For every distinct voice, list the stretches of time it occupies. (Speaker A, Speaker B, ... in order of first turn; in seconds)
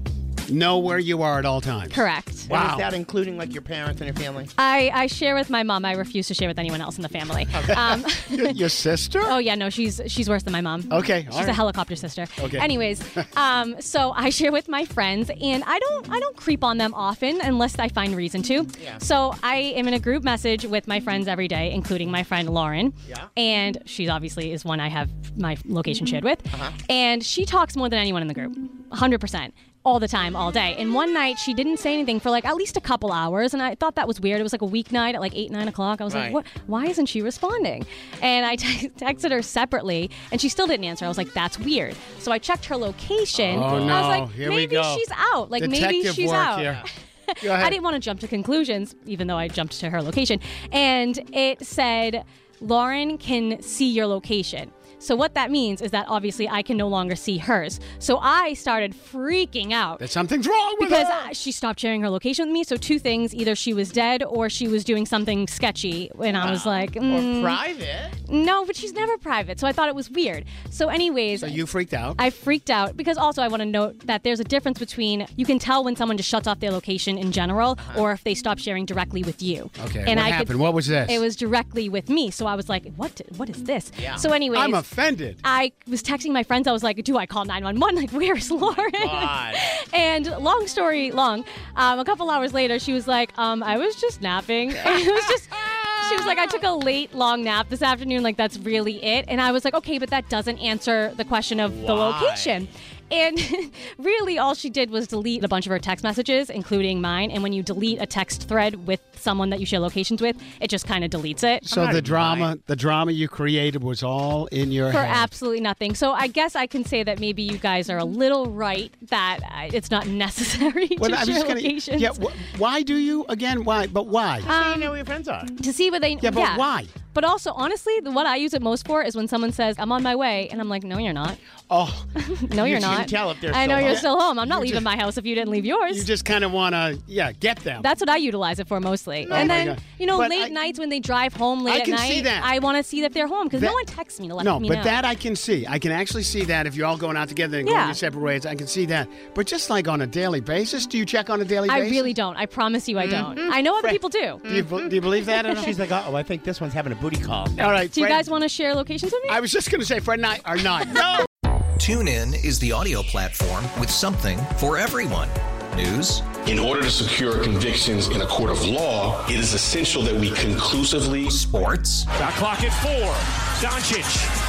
Speaker A: 0.5-2.9, 7.7-9.4, 10.9-11.7, 12.4-13.2, 43.4-45.0, 45.6-46.8, 47.4-47.8, 60.0-61.3, 71.4-72.2, 79.8-81.2, 84.5-85.4, 111.7-115.3, 121.0-124.5, 126.2-126.9, 131.7-132.1, 133.8-134.9, 135.9-137.9, 139.3-140.6, 141.7-142.5, 143.5-143.8, 144.4-152.1, 153.8-155.7, 157.6-158.2, 159.3-161.2
Speaker B: 1.9-2.5, 4.6-8.7, 9.2-60.1, 60.8-67.6, 68.3-71.6, 72.2-84.9, 85.4-111.7, 114.9-122.2, 124.4-125.0, 125.6-131.4, 132.2-136.1, 137.8-145.0, 147.6-148.0, 151.7-154.4, 157.9-159.4
Speaker C: 2.5-4.5, 18.8-19.0, 26.5-26.8, 36.1-36.4, 43.5-44.0, 66.4-68.2, 77.8-78.0, 84.0-84.2, 88.7-89.6, 101.7-102.6, 111.7-112.5, 124.4-125.5, 132.6-134.1, 153.1-153.4, 155.5-157.7
Speaker D: 161.8-166.3, 171.3-172.1
Speaker E: 166.5-171.3
Speaker F: 172.2-174.3